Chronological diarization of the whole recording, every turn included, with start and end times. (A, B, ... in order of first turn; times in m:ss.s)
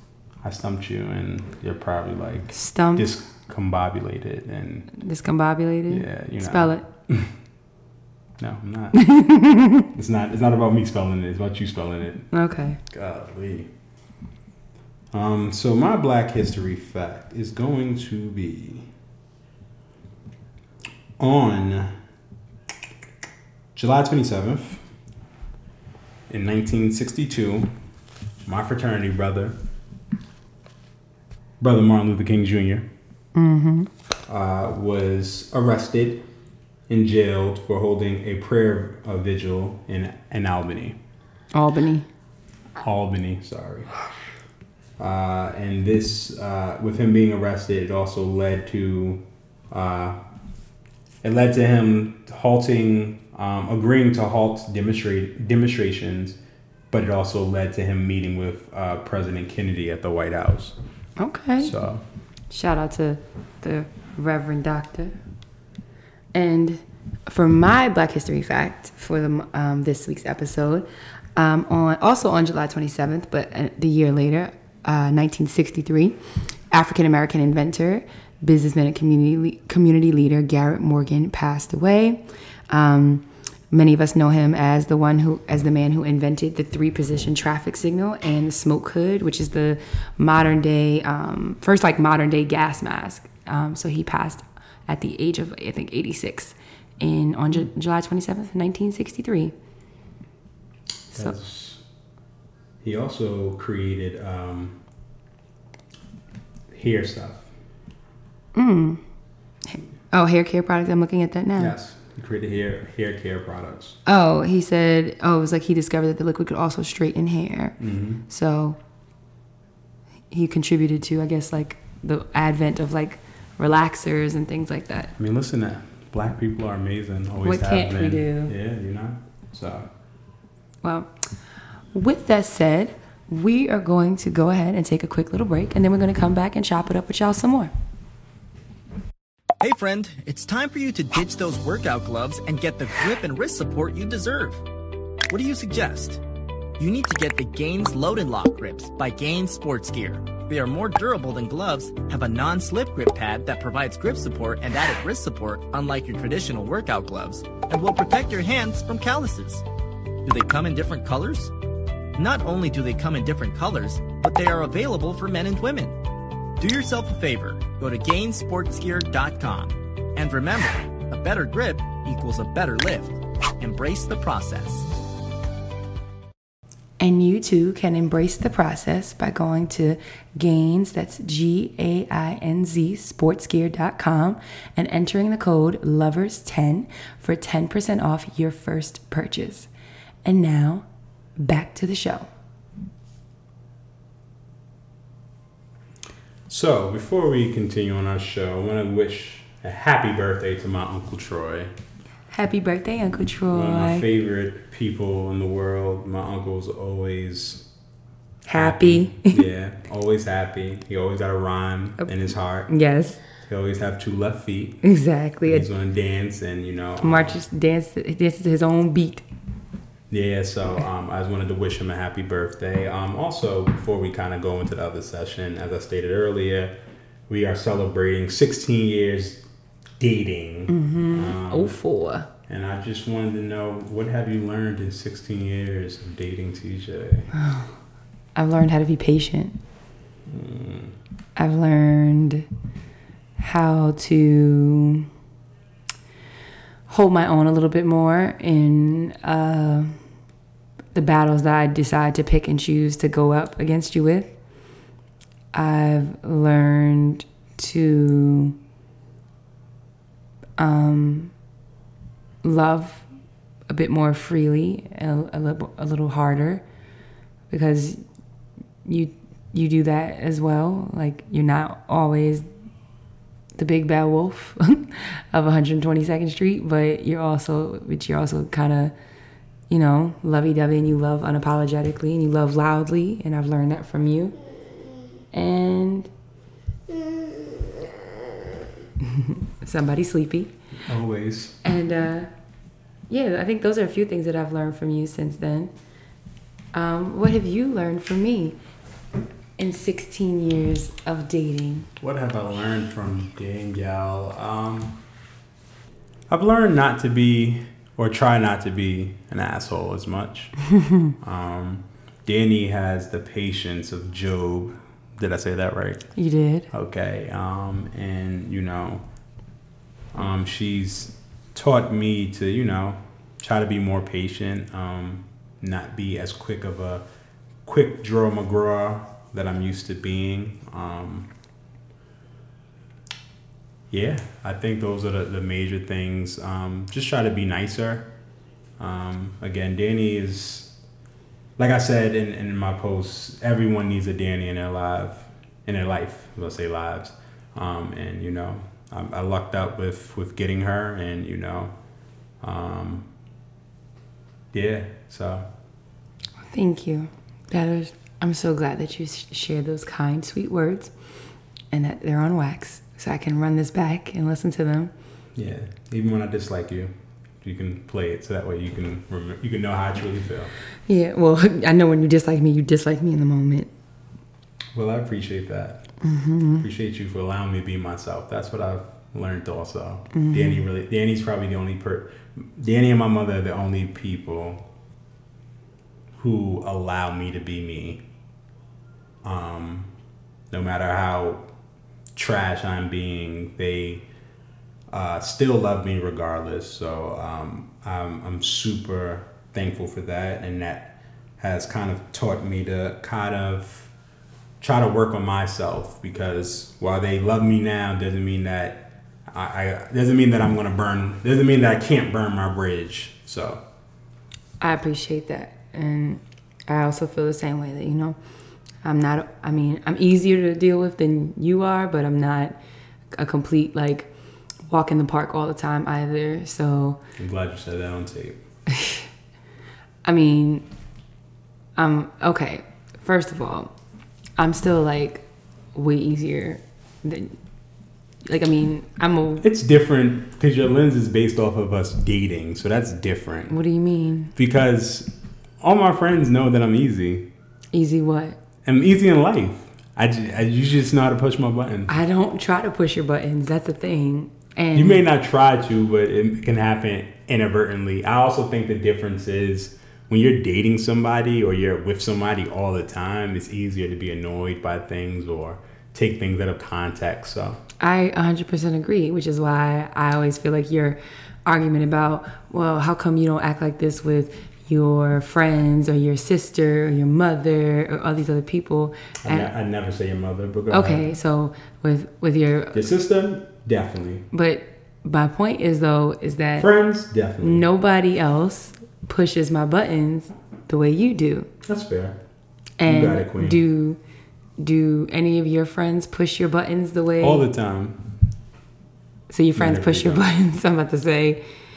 0:00.4-0:04.9 A
0:02.5-0:03.0 B
0:04.9-0:06.8 B
0:05.9-0:07.3 A
0:08.4-0:09.1 A
0:08.9-0:09.8 B
0:09.9-0:12.3 A
0:12.3-0:12.8 B
0:12.9-0:13.7 A
0:15.1-0:18.9 A
0:21.2-0:22.0 A
0:23.7-0:24.8 A
0:26.3-0:27.7 A
0:28.4-0:29.6 A
0:31.6-0:32.9 A
0:33.3-0:33.9 B
0:34.3-0:36.2 A
0:36.9-0:41.0 A
0:41.5-0:42.0 B
0:42.8-0:44.0 A
0:45.0-0:50.2 A
0:51.2-0:56.4 A
0:56.9-1:00.8 A
1:01.2-1:01.7 B
1:01.6-1:02.0 A
1:02.5-1:05.2 B
1:06.3-1:16.2 B
1:16.7-1:39.5 B
1:41.1-1:41.8 A
1:42.8-1:44.8 A
1:46.7-1:47.5 A
1:48.5-1:49.0 B
1:49.7-1:51.8 B
1:51.6-1:54.0 A
1:54.0-1:57.8 B
1:57.8-1:58.2 A
1:58.3-1:58.8 B
2:00.3-2:05.1 B
2:05.2-2:09.9 A
2:07.4-2:08.5 B
2:10.8-2:11.1 B
2:11.9-2:17.7 B
2:19.6-2:24.6 C
2:25.3-2:26.2 C
2:26.8-2:39.6 C
2:40.2-2:41.5 C
2:42.2-2:46.0 C
2:46.6-2:54.9 C
2:57.0-3:09.7 B
3:10.2-3:10.8 B
3:11.4-3:12.3 B
3:16.5-3:21.7 A
3:22.3-3:24.0 B
3:23.5-3:27.6 A
3:28.4-3:29.4 B
3:28.5-3:32.7 A
3:32.7-3:33.2 B
3:33.4-3:34.8 A
3:34.8-3:35.7 B
3:35.4-3:37.4 A
3:37.0-3:39.2 B
3:40.1-3:46.8 A
3:47.3-3:49.4 A
3:50.0-3:51.8 A
3:50.7-3:52.3 B
3:52.5-3:57.3 A
3:57.3-3:57.7 B
3:58.3-3:59.6 B
4:00.3-4:00.9 A
4:01.4-4:02.4 B
4:03.4-4:05.1 B
4:06.9-4:10.0 B
4:10.9-4:14.4 B
4:15.5-4:18.6 B
4:20.6-4:21.3 B
4:22.4-4:23.0 B
4:23.7-4:26.6 B
4:27.5-4:28.0 B
4:28.8-4:32.5 B
4:33.6-4:38.9 B
4:39.7-4:44.3 B
4:45.3-4:46.1 B
4:49.0-4:50.5 B
4:50.8-4:51.6 A
4:51.6-4:52.3 B
4:53.1-4:55.7 B
4:56.7-4:58.6 B
4:59.6-5:01.9 B
5:02.0-5:05.0 A
5:06.3-5:10.6 A
5:11.2-5:16.1 A
5:16.2-5:16.7 B
5:16.7-5:19.0 A
5:20.1-5:27.0 A
5:27.6-5:31.3 A
5:33.9-5:38.1 A
5:38.8-5:40.7 A
5:41.6-5:51.7 A
5:52.4-5:53.1 A
5:54.5-5:55.4 A
5:56.5-6:00.9 B
6:01.7-6:04.9 B
6:05.4-6:10.5 A
6:10.9-6:13.7 B
6:14.7-6:15.9 A
6:16.0-6:16.6 B
6:16.6-6:24.6 A
6:20.1-6:20.6 B
6:26.2-6:28.0 A
6:29.2-6:29.9 A
6:30.5-6:31.5 A
6:32.1-6:34.0 A
6:34.9-6:43.9 A
6:44.6-6:53.6 A
6:54.6-6:58.2 B
6:58.8-7:02.6 B
7:03.1-7:04.1 B
7:04.7-7:07.0 B
7:07.2-7:08.4 A
7:10.0-7:10.6 B
7:11.8-7:13.7 B
7:14.4-7:17.4 B
7:18.2-7:19.4 B
7:19.4-7:23.5 A
7:23.5-7:24.3 B
7:24.4-7:27.3 A
7:27.7-7:28.4 B
7:28.6-7:31.9 A
7:31.9-7:35.0 B
7:34.7-7:47.6 A
7:47.8-7:59.5 B
7:59.2-8:01.1 A
8:00.7-8:02.8 B
8:02.7-8:04.2 A
8:04.3-8:06.7 B
8:06.6-8:07.6 A
8:07.4-8:11.5 B
8:11.6-8:12.2 A
8:12.8-8:14.0 B
8:12.8-8:13.6 A
8:14.6-8:17.5 B
8:17.2-8:18.2 A
8:19.3-8:21.4 B
8:19.6-8:20.2 A